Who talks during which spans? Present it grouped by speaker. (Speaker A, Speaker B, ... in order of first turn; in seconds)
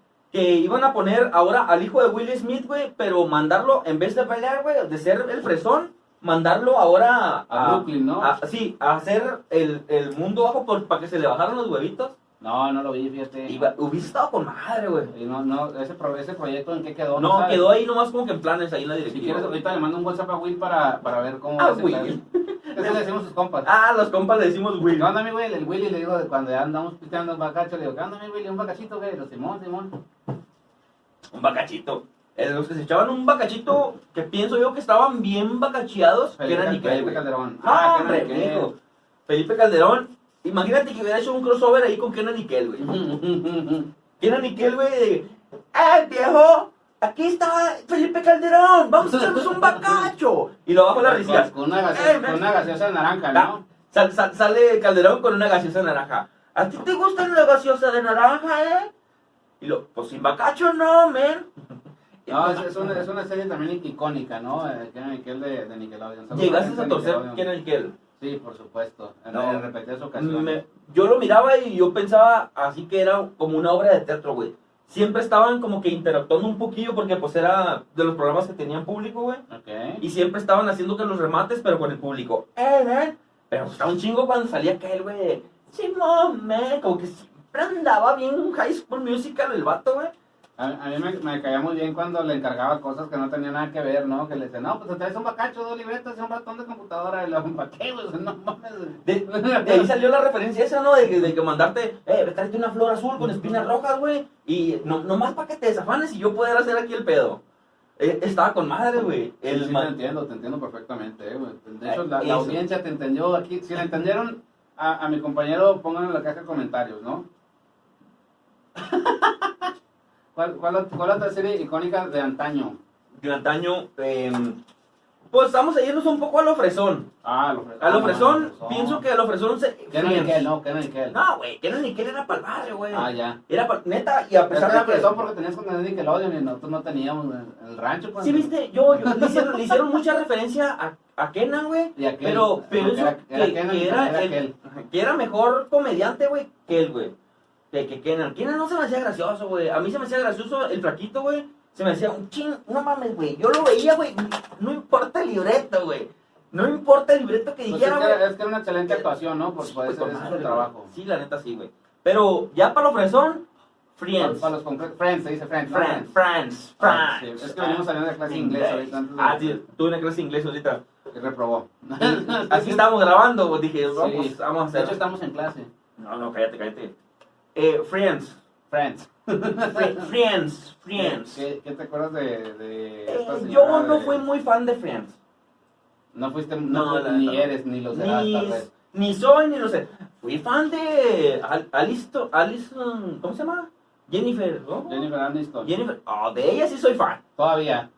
Speaker A: 0.3-12.1, 13.5-15.1, 17.2-19.6, 21.6-23.0, 23.6-25.1, 31.3-38.7, 39.3-42.9, 44.2-52.4, 53.3-58.9, 59.6-61.5, 62.2-63.0, 66.3-67.9, 69.3-69.6, 70.2-79.4, 80.0-90.1, 99.0-107.4, 108.0-109.9, 111.8-112.6, 123.1-124.6, 125.3-127.1, 127.8-130.4, 131.1-135.1, 138.2-147.1, 147.7-158.2, 159.6-163.4, 163.9-164.5, 165.7-170.8, 172.0-175.0, 176.0-176.9, 177.5-178.4, 179.7-181.4, 183.1-185.2, 186.7-195.1, 195.6-197.2
Speaker B: 7.5-8.3, 12.4-13.7, 15.1-17.6, 19.1-22.1, 22.7-23.7, 24.9-29.9, 36.4-38.7, 42.8-43.9, 49.0-50.1, 51.0-53.6, 62.3-67.4, 68.2-70.6, 79.5-80.0, 90.6-99.9, 109.4-117.2, 118.8-119.7, 120.3-122.8, 127.2-129.0, 129.9-131.2, 132.9-133.4, 134.5-139.7, 141.9-144.5, 157.7-160.9, 164.2-166.1, 166.8-169.6, 171.1-172.8, 173.9-175.7, 178.7-180.1, 180.9-184.2, 186.1-188.7, 194.9-195.7, 197.4-197.9